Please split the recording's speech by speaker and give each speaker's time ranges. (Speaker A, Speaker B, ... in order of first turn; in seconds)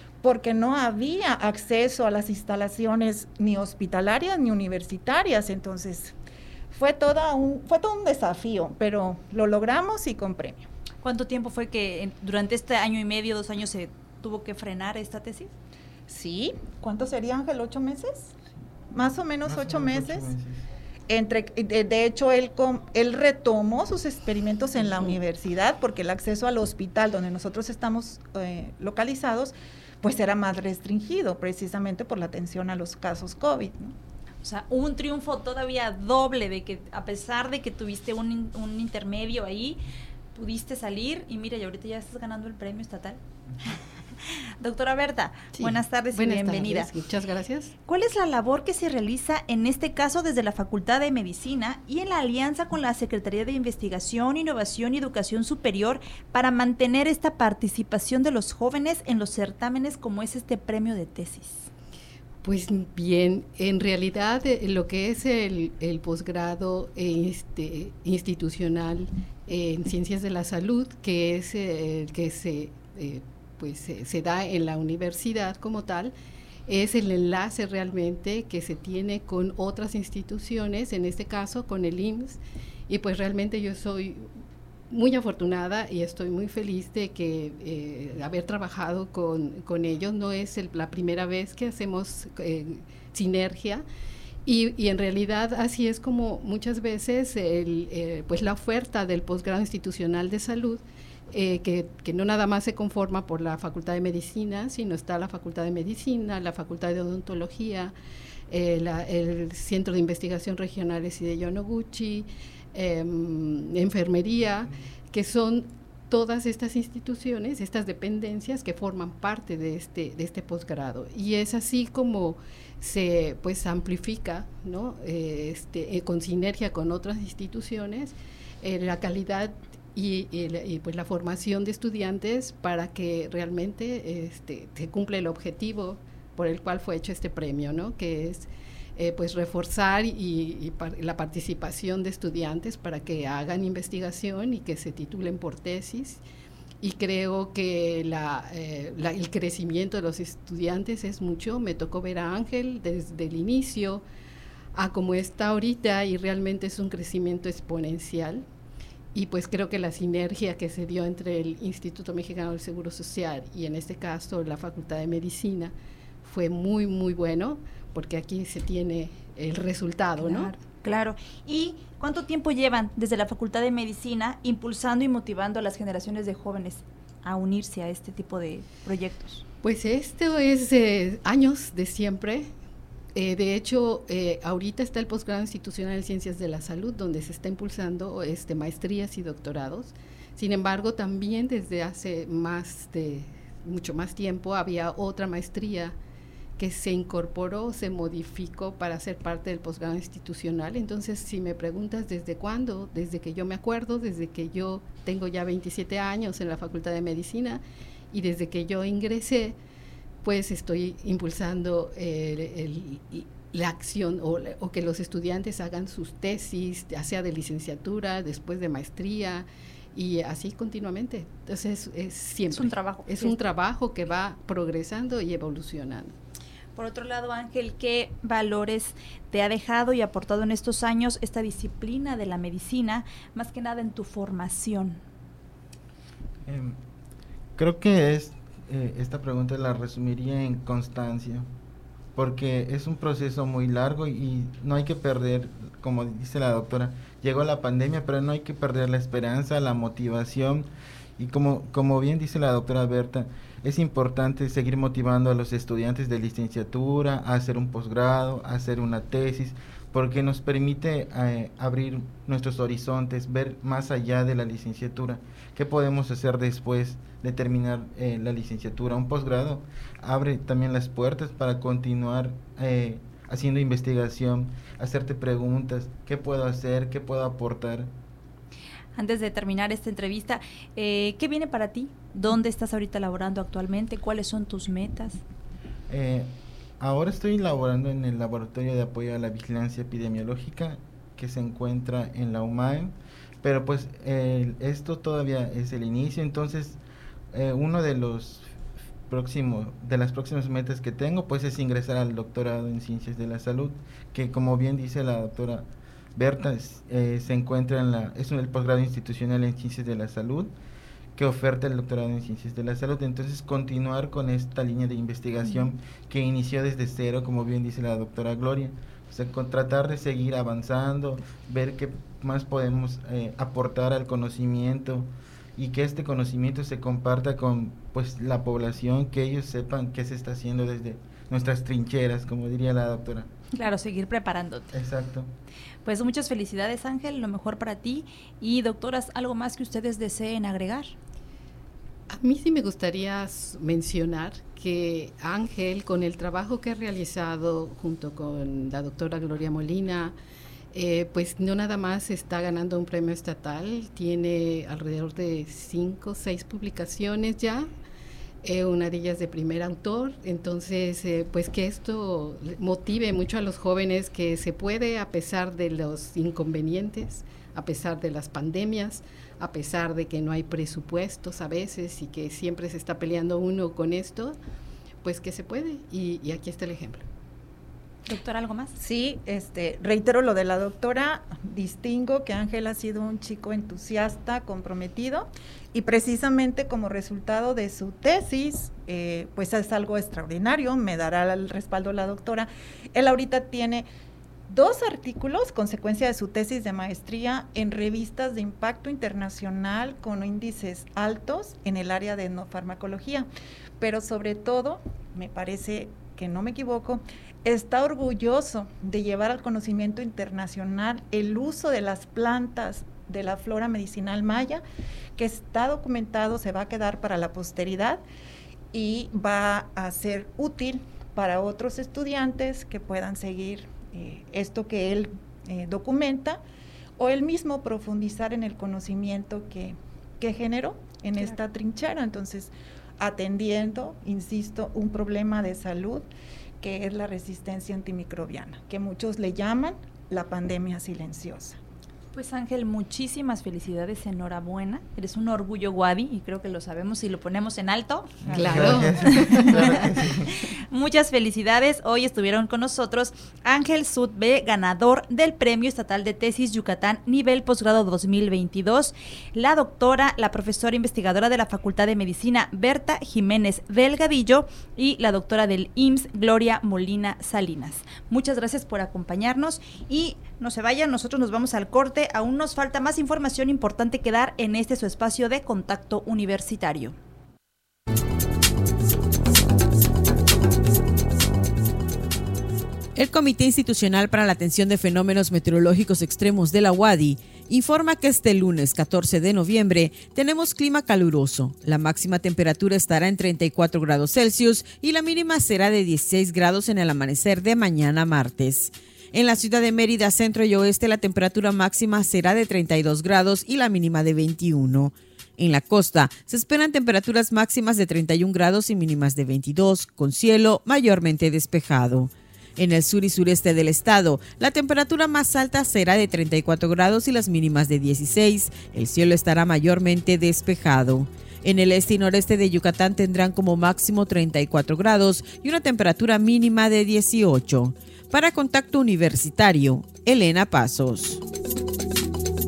Speaker A: 0.2-6.2, 6.7-10.7, 16.1-18.3, 18.9-20.3, 21.1-33.9, 378.8-393.9, 394.5-403.3, 403.8-414.6, 415.1-418.0, 418.7-426.4, 427.0-436.1, 436.6-441.6
Speaker B: 11.0-15.5, 34.4-39.8, 40.4-43.2, 44.6-46.9, 47.9-61.7, 170.2-179.4, 222.5-223.4, 226.8-235.0, 278.9-285.2, 333.5-334.7, 335.9-340.9, 378.1-378.7, 442.1-450.0, 450.7-476.9
Speaker C: 19.4-20.6, 236.4-236.8, 237.6-241.5, 242.1-277.9, 285.9-296.8, 297.3-298.5, 299.1-310.5, 311.1-333.3, 334.7-335.3, 448.2-450.3
Speaker D: 45.5-47.7, 62.4-76.1, 76.7-84.3, 84.9-93.8, 94.5-107.9, 108.5-146.2, 146.8-154.0, 154.7-158.4, 159.1-170.6, 179.6-182.5, 183.1-195.9, 196.6-209.6, 210.2-226.1, 342.1-350.1, 350.7-357.7, 358.4-374.4, 375.0-377.0, 448.3-449.7
Speaker E: 482.9-531.2